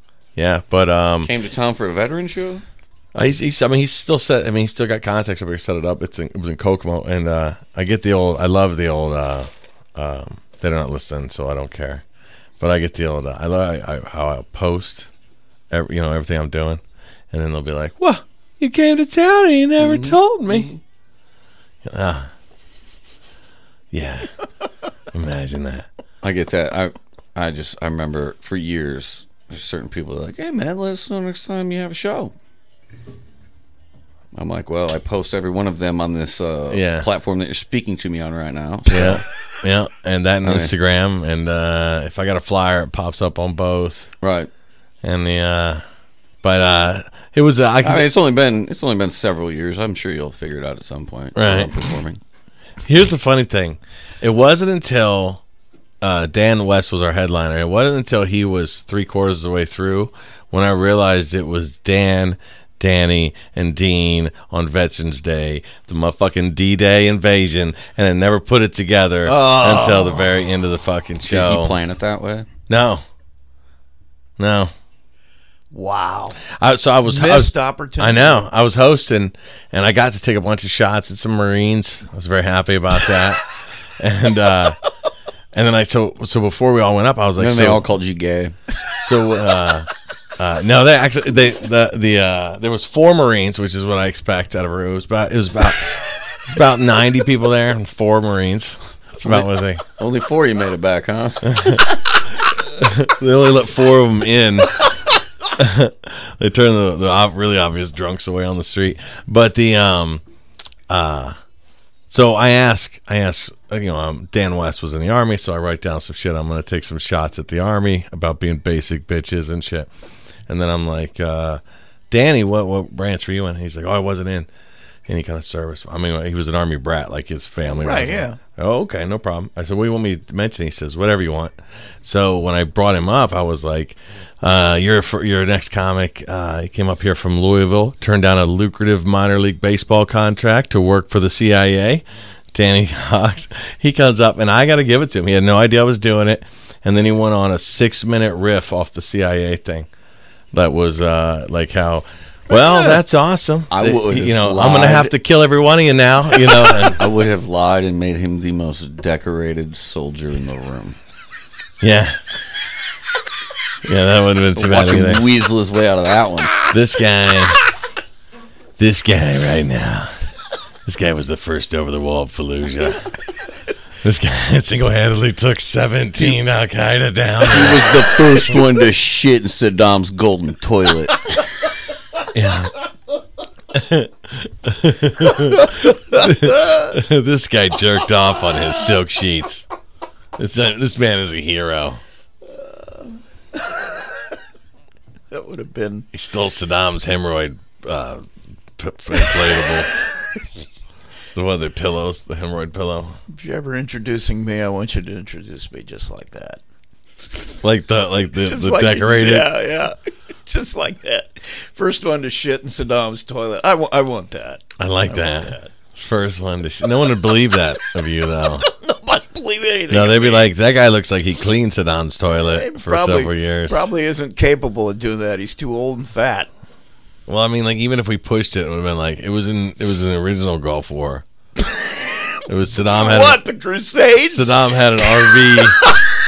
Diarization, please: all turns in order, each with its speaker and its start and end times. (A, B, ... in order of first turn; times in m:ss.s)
0:00.4-0:01.3 A
0:01.2-0:02.6 B
0:03.2-0:12.0 A
0:12.6-0:15.1 A
0:15.7-0:20.7 A
0:19.8-0:20.8 B
0:21.8-0:22.3 A
0:23.9-0:24.3 A
0:25.1-0:25.9 A
0:26.2-0:32.3 B
0:34.3-0:39.2 B
0:36.7-0:37.1 A
0:38.9-0:44.1 A
0:40.4-0:40.7 B
0:44.2-0:44.5 B
0:45.0-0:45.8 A
0:46.4-0:48.1 A
0:47.8-0:52.2 B
0:51.4-0:51.7 A
0:52.8-0:55.4 A
0:56.0-1:11.8 A
1:09.2-1:10.3 C
1:11.3-1:12.5 B
1:12.7-1:13.0 A
1:14.4-1:14.7 A
1:15.7-1:16.4 C
1:16.6-1:23.5 A
1:17.0-1:18.4 C
1:24.0-1:24.8 A
1:25.5-1:27.8 A
1:27.4-1:28.6 B
1:29.0-1:39.8 A
1:39.2-1:41.9 B
1:41.4-1:41.9 A
1:42.5-1:44.9 A
1:45.5-1:50.2 A
1:50.9-1:51.4 A
1:52.1-1:59.9 A
2:00.5-2:04.5 A
2:05.1-2:22.0 A
2:07.7-2:08.4 C
2:22.5-2:29.9 A
2:30.5-2:37.0 A
2:33.7-2:35.1 B
2:36.8-2:41.0 B
2:41.8-2:42.2 A
2:43.8-2:45.2 A
2:44.6-2:46.7 B
2:46.7-2:47.6 A
2:48.8-2:50.1 A
2:50.8-2:53.1 A
2:54.0-2:58.2 A
2:57.5-3:01.3 B
3:02.3-3:02.7 A
3:03.7-3:09.7 A
3:10.4-3:12.0 A
3:15.3-3:16.1 C
3:16.1-3:20.0 A
3:21.4-3:23.2 A
3:23.3-3:26.6 C
3:27.6-3:29.5 A
3:28.4-3:35.7 C
3:34.8-3:38.7 A
3:38.6-3:40.5 C
3:39.9-3:43.9 A
3:42.4-3:46.5 C
3:47.3-3:51.2 A
3:52.5-3:53.4 A
3:52.9-3:54.6 C
3:54.2-3:55.8 A
3:55.5-3:56.0 C